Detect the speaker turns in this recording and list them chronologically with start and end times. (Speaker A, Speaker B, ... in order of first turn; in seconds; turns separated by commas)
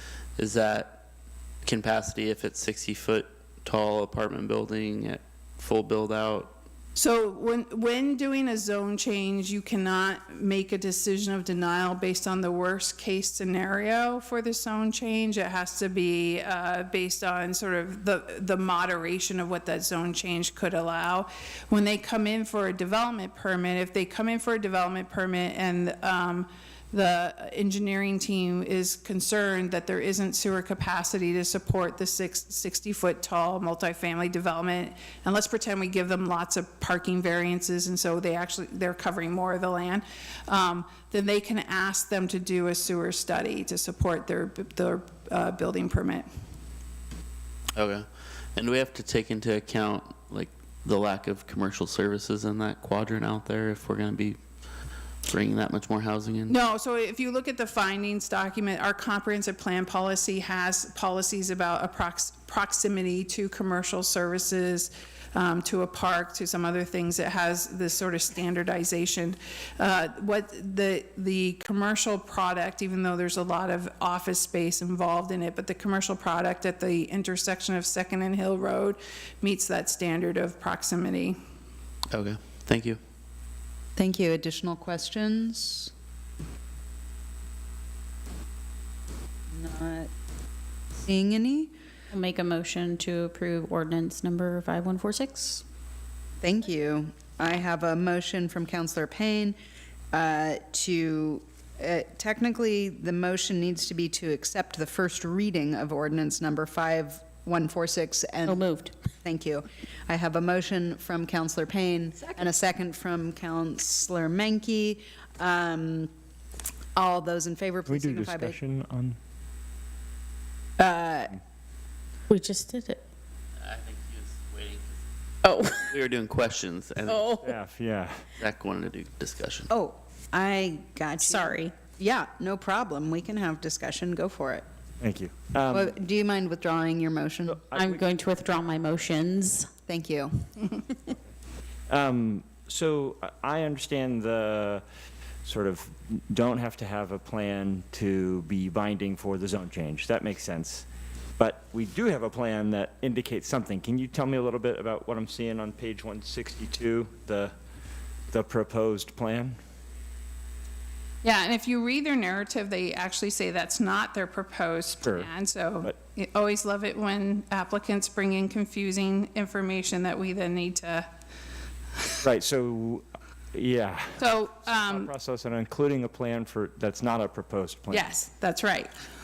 Speaker A: 0.4-1.0, Speaker A: 1.6-6.5, Speaker B: 7.0-46.3, Speaker A: 47.8-54.4, Speaker A: 55.3-56.5, Speaker B: 56.5-81.4, Speaker A: 82.1-83.0, Speaker C: 84.0-85.9, Speaker C: 89.5-90.1, Speaker C: 91.0-91.7, Speaker D: 92.1-95.6, Speaker C: 96.4-99.5, Speaker C: 100.1-108.6, Speaker D: 108.5-108.9, Speaker C: 109.2-116.1, Speaker C: 117.0-118.6, Speaker E: 117.9-119.2, Speaker C: 120.8-121.3, Speaker D: 122.3-123.0, Speaker A: 123.6-125.0, Speaker D: 125.4-125.9, Speaker A: 125.9-127.3, Speaker D: 127.1-127.5, Speaker E: 127.4-128.2, Speaker A: 128.4-129.7, Speaker C: 129.7-134.6, Speaker D: 131.4-131.7, Speaker E: 135.0-135.9, Speaker C: 135.7-137.6, Speaker E: 137.5-138.0, Speaker D: 137.8-139.7, Speaker C: 139.9-140.5, Speaker E: 141.9-144.8, Speaker E: 145.4-150.8, Speaker E: 151.4-157.5, Speaker E: 158.3-159.6, Speaker B: 161.2-171.1, Speaker E: 165.0-165.3, Speaker E: 172.2-178.2, Speaker B: 174.2-175.1, Speaker B: 177.9-178.9